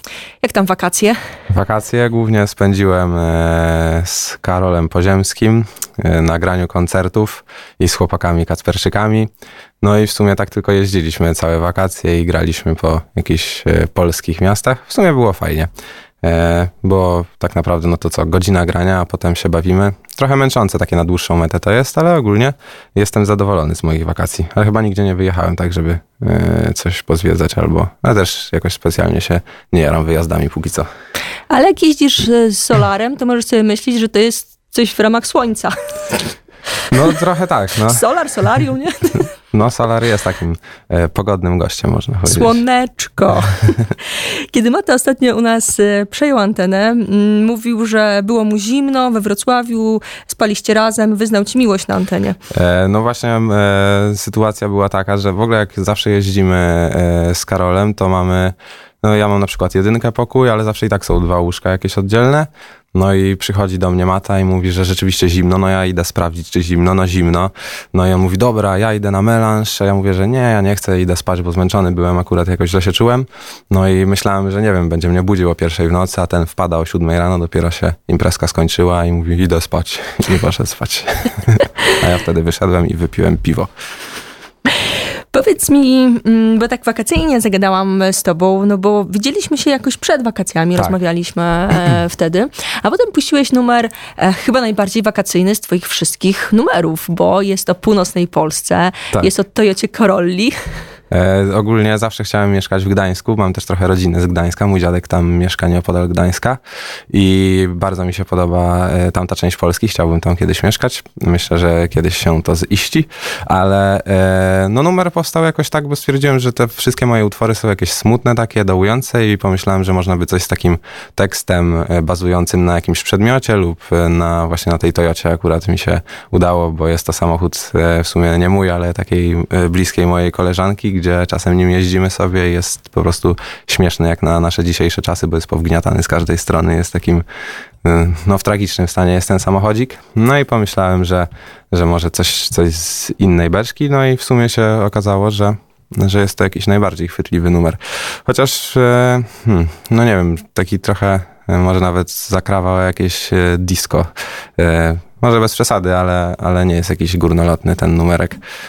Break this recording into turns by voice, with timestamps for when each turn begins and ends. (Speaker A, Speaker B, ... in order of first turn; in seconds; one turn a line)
Speaker A: 0.4-1.2
Speaker B: 1.5-9.3
Speaker B: 9.8-15.7
Speaker B: 16.2-30.9
Speaker A: 31.5-36.3
Speaker B: 36.9-38.0
Speaker A: 37.9-39.3
Speaker B: 39.5-42.6
Speaker A: 42.2-52.4
Speaker B: 52.5-83.7
Speaker A: 85.3-100.7
Speaker B: 101.1-106.6
Speaker B: 107.1-137.2
Speaker B: 137.8-158.4